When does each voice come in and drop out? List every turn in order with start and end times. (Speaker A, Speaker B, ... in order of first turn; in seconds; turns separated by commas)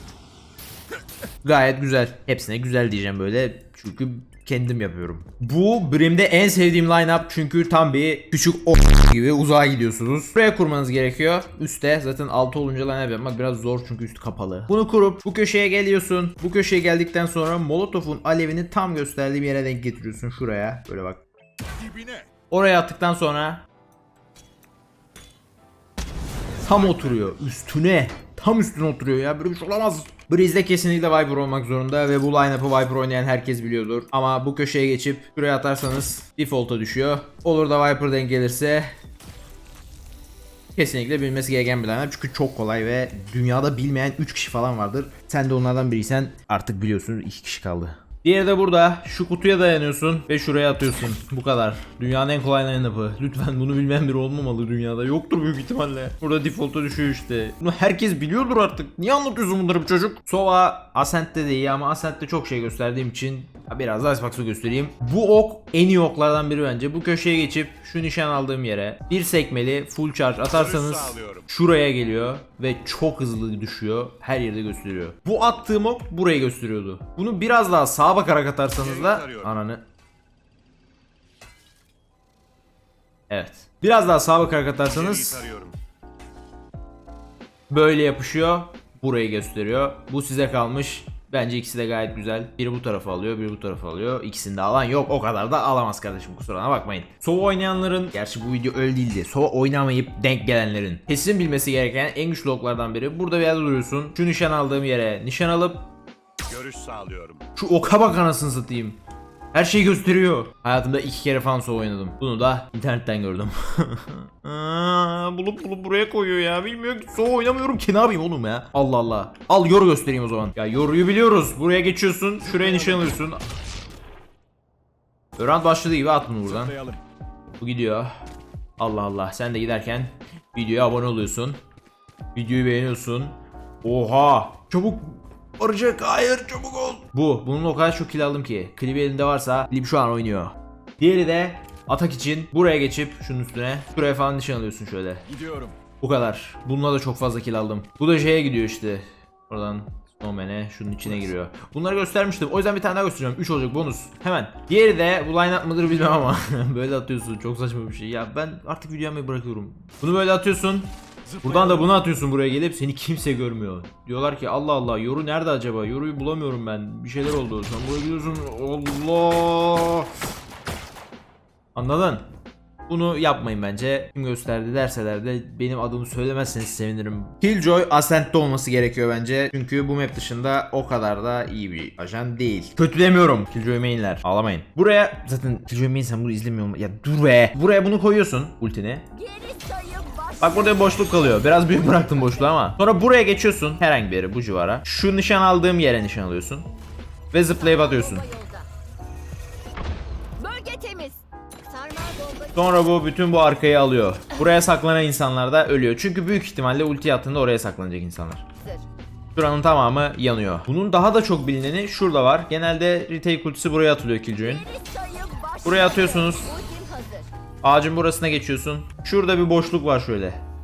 Speaker A: 1.4-21.2, Speaker B: 21.8-22.3, Speaker A: 22.5-23.6, Speaker A: 26.6-38.9, Speaker B: 26.7-27.2, Speaker A: 40.7-79.8, Speaker B: 70.5-71.4, Speaker B: 78.8-79.5, Speaker A: 83.3-85.5, Speaker B: 84.9-85.8, Speaker A: 87.7-105.9, Speaker B: 106.5-107.4, Speaker A: 107.5-109.0, Speaker A: 109.5-123.4, Speaker A: 125.4-126.8, Speaker B: 126.6-127.0, Speaker A: 127.6-128.1, Speaker A: 128.8-131.6, Speaker A: 132.3-145.2, Speaker B: 145.3-145.7, Speaker A: 146.0-170.1, Speaker B: 161.3-161.8, Speaker A: 171.7-172.2, Speaker A: 172.9-189.1, Speaker C: 189.1-192.5, Speaker A: 190.4-196.7, Speaker A: 197.3-198.2, Speaker C: 197.6-198.7, Speaker C: 200.4-202.7, Speaker A: 202.5-208.4, Speaker C: 208.6-208.9, Speaker A: 209.3-214.7, Speaker C: 214.4-217.3, Speaker A: 215.6-216.5, Speaker A: 217.6-220.4